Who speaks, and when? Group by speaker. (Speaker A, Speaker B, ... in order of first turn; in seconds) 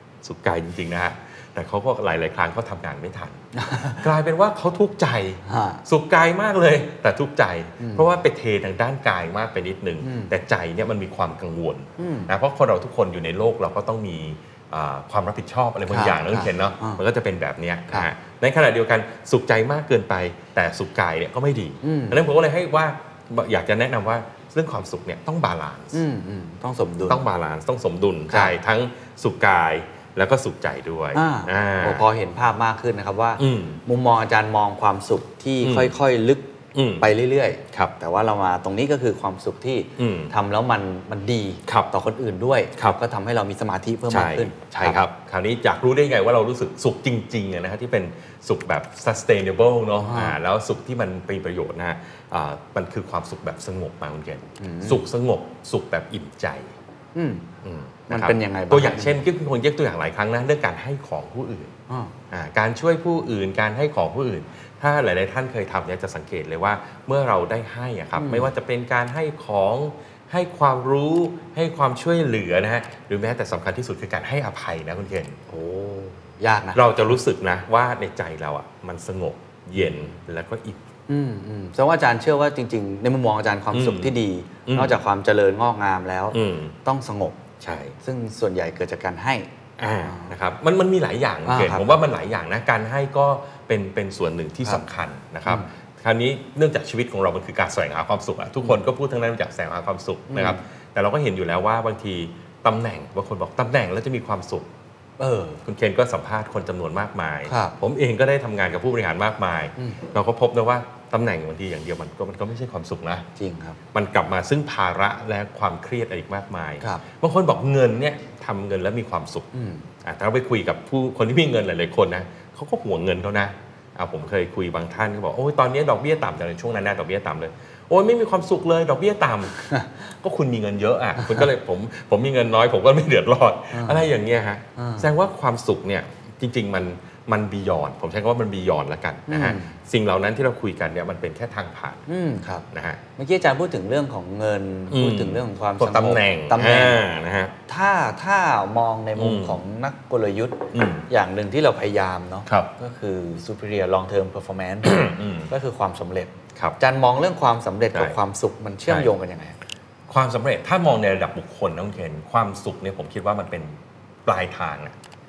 Speaker A: 0.2-3.4, 4.0-26.0, 27.1-32.1, 33.4-33.8, 35.6-35.9, 36.7-37.1, 40.0-40.3, 44.1-56.7, 57.6-61.7, 62.3-75.4, 76.8-80.8, 83.7-85.0, 86.3-86.8, 87.6-88.0, 89.8-104.7, 105.6-113.3, 113.9-119.5, 120.0-142.1, 142.7-143.0, 144.9-147.5, 149.2-149.6, 150.7-151.1, 152.5-152.7, 154.8-155.5, 160.1-165.0
Speaker B: 3.6-4.0, 5.5-5.8, 7.8-8.1, 10.0-10.3, 12.0-12.3, 15.9-17.0, 21.8-22.2, 25.9-27.2, 31.1-45.0, 50.0-50.4, 54.6-55.0, 57.1-57.5, 58.1-59.2, 61.9-62.1, 68.2-68.5, 75.5-76.8, 81.1-87.4, 88.0-89.5, 90.0-90.3, 91.5-92.0, 100.3-100.6, 105.2-105.6, 107.5-107.8, 113.4-113.8, 119.5-119.9, 131.2-131.4, 133.7-134.1, 134.8-135.1, 139.3-139.7, 142.1-142.7, 143.2-147.0, 147.7-159.6